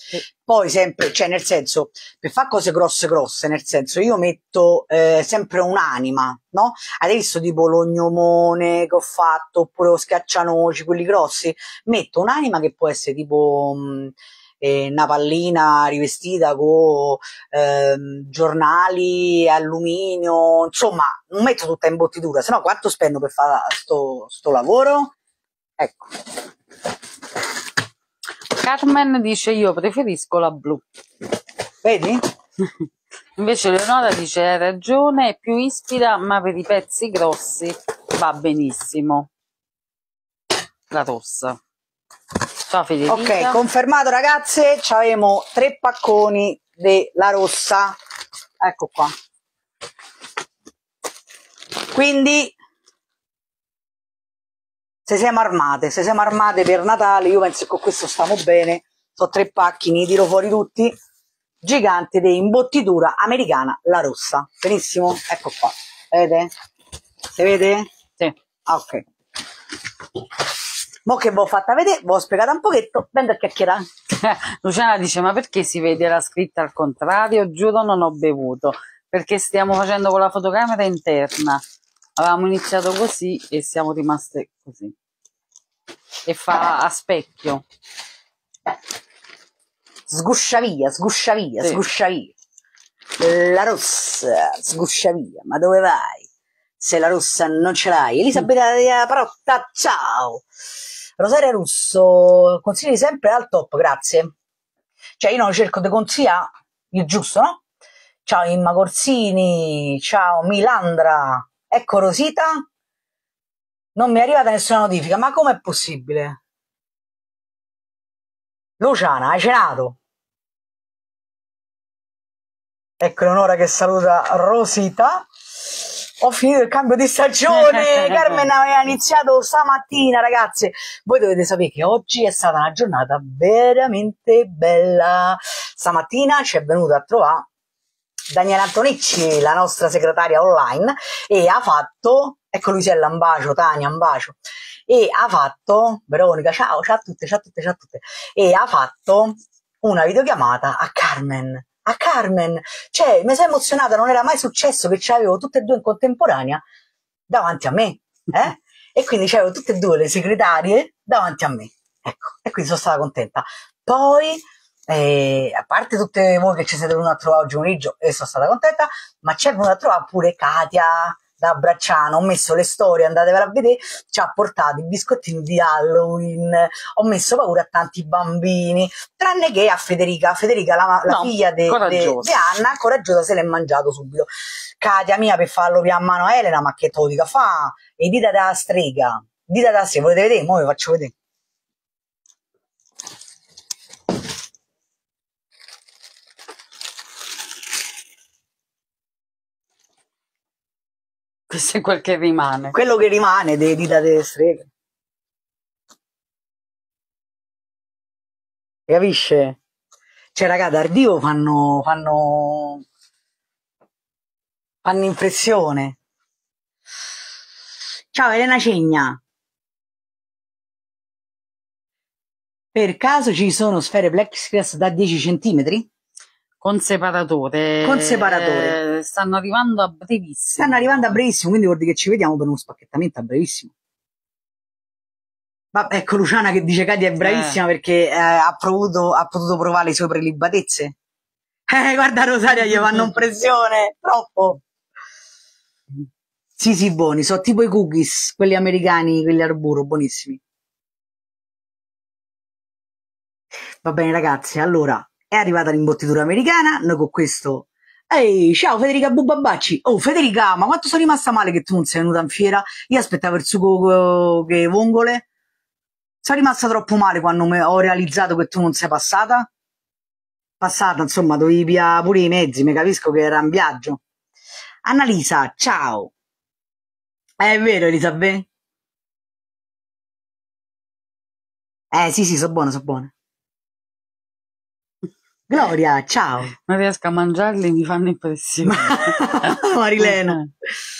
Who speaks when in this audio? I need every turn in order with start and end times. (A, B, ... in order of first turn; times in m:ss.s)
0:00.4-0:25.1 A
0:25.8-0:26.1 A
0:28.6-0:30.8 B
0:31.8-0:32.2 A
0:33.4-0:39.3 B
0:40.9-0:41.6 B
0:42.7-0:43.6 B
0:43.1-0:48.0 A
0:48.6-0:49.1 A
0:51.9-0:52.6 A
0:55.1-1:00.9 A
1:01.6-1:06.5 A
1:07.3-1:07.9 A
1:08.7-1:09.0 A
1:11.1-1:13.8 A
1:14.2-1:21.6 B
1:22.2-1:25.0 B
1:26.3-1:27.6 B
1:30.1-1:32.3 A
1:33.2-1:36.3 A
1:36.8-1:40.4 A
1:41.2-1:44.3 A
1:45.2-1:47.6 A
1:48.2-1:52.6 A
1:54.0-1:56.4 A
1:58.8-2:00.0 A
2:03.0-2:05.3 A
2:05.9-2:17.4 A
2:18.3-2:24.4 A
2:24.9-2:36.6 A
2:37.3-3:04.3 A
3:01.1-3:02.4 B
3:04.8-3:11.1 A
3:21.5-3:22.8 B
3:22.7-3:24.7 A
3:28.9-3:29.6 A
3:30.4-3:32.8 A
3:34.8-3:36.0 A
3:38.1-3:39.2 A
3:42.7-3:45.9 A
3:46.6-3:51.2 B
3:47.8-3:48.8 A
3:50.6-3:53.7 A
3:55.7-4:00.9 A
3:57.2-3:57.6 B
4:01.7-4:04.6 A
4:06.6-4:10.4 A
4:13.8-4:25.2 A
4:26.2-4:29.5 A
4:30.6-4:34.0 A
4:34.8-4:36.1 A
4:37.4-4:38.5 A
4:41.9-4:43.1 A
4:45.5-4:46.5 A
4:46.6-4:50.4 B
4:48.6-4:50.4 A